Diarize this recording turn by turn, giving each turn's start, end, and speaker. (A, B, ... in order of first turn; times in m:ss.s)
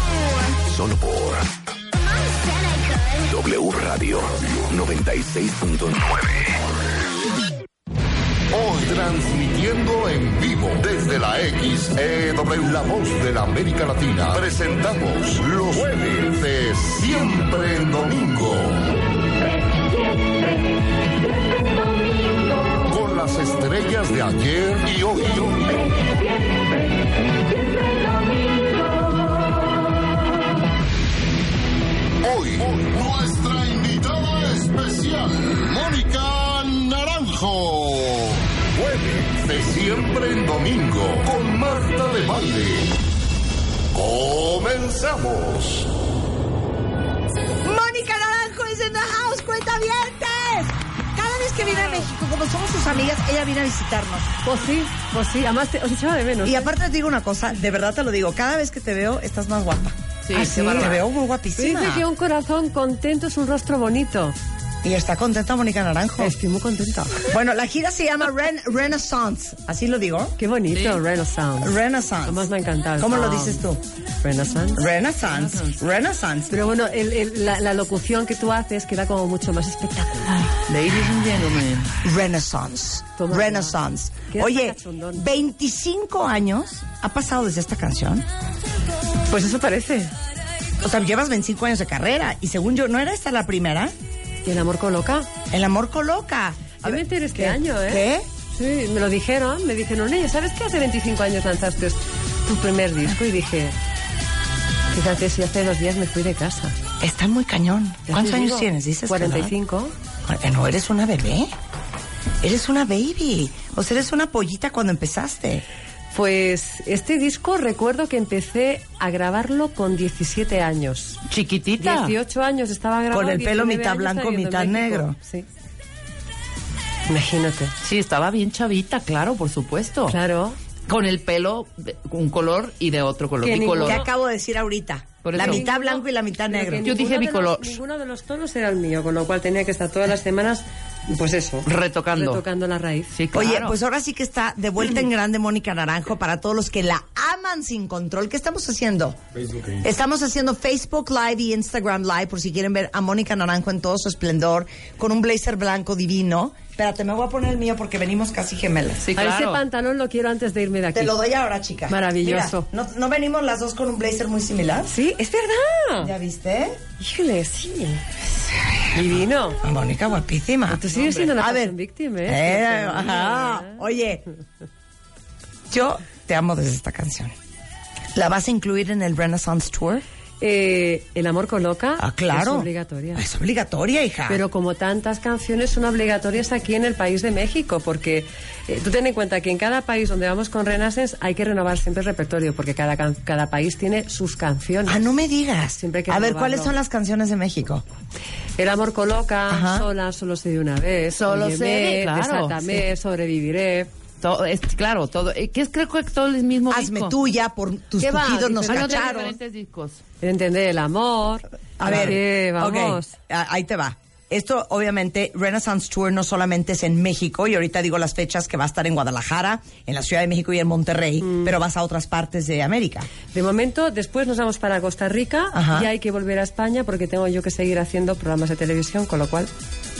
0:00.6-0:01.5 A
0:03.2-0:06.6 A
0:08.5-0:19.0 B
0:22.8-0:25.8 B
0:32.2-0:43.0 B
0:43.9-0:45.9 B
0:47.6-0:54.3 C
0:54.4-0:56.7 D
0:56.4-1:00.0 C
1:00.3-1:01.0 E
1:00.3-1:01.0 D
1:00.7-1:02.0 C
1:01.6-1:04.4 D
1:04.8-1:06.3 C
1:06.2-1:07.3 D
1:07.3-1:10.3 C
1:10.4-1:13.7 D
1:10.7-1:11.0 E
1:11.6-1:13.8 C
1:14.2-1:14.8 D
1:14.7-1:16.6 C
1:15.2-1:15.8 E
1:16.5-1:20.5 D
1:20.7-1:21.9 E
1:22.0-1:28.2 C
1:23.2-1:23.7 D
1:24.3-1:25.3 D
1:29.3-1:30.1 D
1:30.8-1:33.9 C
1:34.4-1:35.3 D
1:35.5-1:38.2 C
1:36.8-1:43.7 D
1:44.9-1:46.8 D
1:47.0-1:49.5 C
1:48.1-1:49.9 D
1:50.2-1:51.5 C
1:52.4-1:55.6 C
1:56.1-2:01.2 D
2:01.3-2:02.2 E
2:01.8-2:05.4 D
2:03.1-2:05.2 C
2:07.1-2:07.7 D
2:07.8-2:10.2 E
2:10.1-2:10.6 D
2:10.9-2:14.0 E
2:13.4-2:14.1 D
2:13.8-2:16.9 C
2:15.2-2:15.6 E
2:15.4-2:23.1 D
2:16.8-2:17.8 E
2:21.6-2:22.4 E
2:23.1-2:23.8 E
2:23.3-2:39.0 C
2:39.0-2:39.6 E
2:39.2-2:41.2 D
2:40.9-2:44.9 C
2:41.9-2:42.7 D
2:44.9-2:46.1 D
2:46.0-2:46.8 C
2:47.0-2:48.1 D
2:48.9-2:49.6 D
2:49.0-2:50.8 C
2:50.7-2:53.8 D
2:50.9-2:51.4 E
2:51.4-2:51.7 C
2:52.2-2:54.2 C
2:55.7-2:57.3 C
2:58.1-3:00.0 C
3:00.4-3:03.2 D
3:02.0-3:04.4 C
3:04.3-3:15.0 D
3:14.8-3:17.8 C
3:15.8-3:16.8 D
3:18.6-3:23.9 D
3:19.5-3:19.9 C
3:21.1-3:22.8 E
3:24.2-3:27.1 E
3:26.7-3:29.4 C
3:28.0-3:29.3 D
3:28.6-3:30.0 E
3:30.2-3:33.1 D
3:31.8-3:43.1 C
3:31.8-3:32.1 E
3:41.2-3:41.5 D
3:43.3-3:49.5 D
3:45.5-3:45.9 C